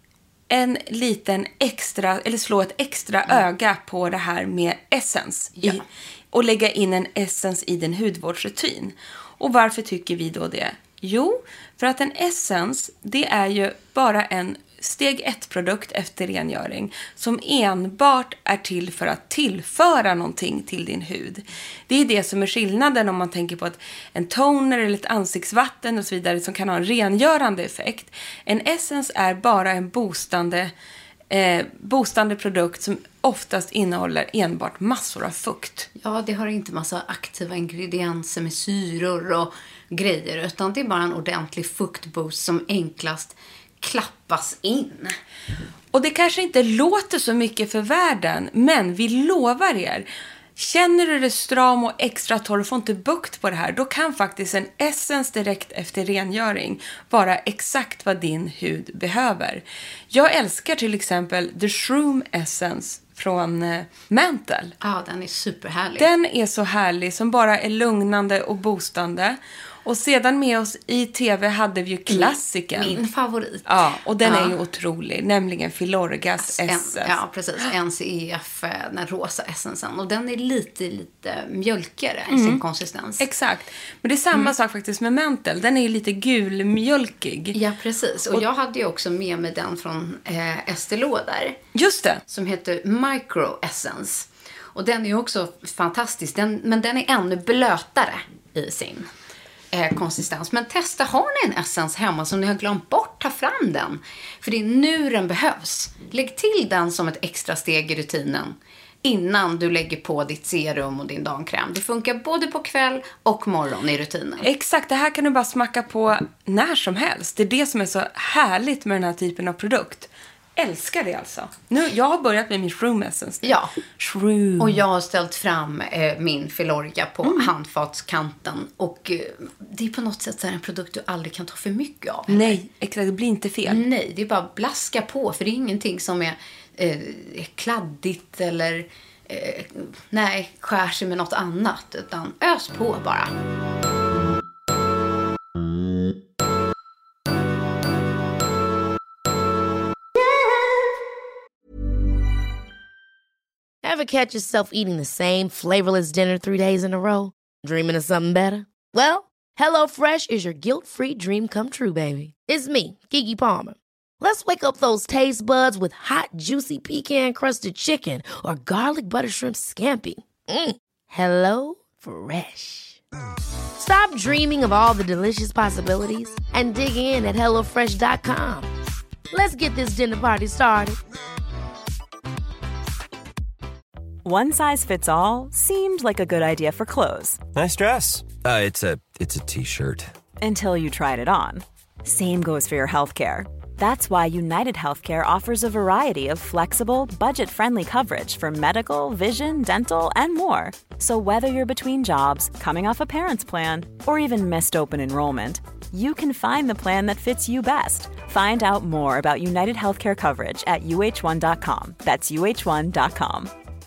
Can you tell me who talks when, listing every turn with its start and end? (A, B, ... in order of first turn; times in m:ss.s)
0:00.5-0:30.7 A
0:31.3-0:35.9 A
0:36.0-0:45.1 B
0:45.9-1:04.7 A
1:04.8-1:06.1 B
1:06.0-1:13.0 A
1:12.1-1:13.6 B
1:13.6-1:17.2 A
1:14.2-1:14.5 B
1:16.4-1:23.2 B
1:22.3-1:22.6 A
1:23.2-1:27.6 A
1:27.5-1:31.6 B
1:31.7-1:32.2 A
1:32.3-1:39.1 B
1:39.7-1:54.4 B
1:54.4-2:04.8 A
2:03.4-2:03.7 B
2:04.6-2:12.6 B
2:07.2-2:07.5 A
2:12.3-2:13.8 A
2:13.6-2:23.3 B
2:33.8-2:53.0 C
2:53.8-2:58.7 C
2:59.3-3:01.0 C
3:04.2-3:07.4 D
3:07.5-3:10.1 E
3:10.4-3:33.5 D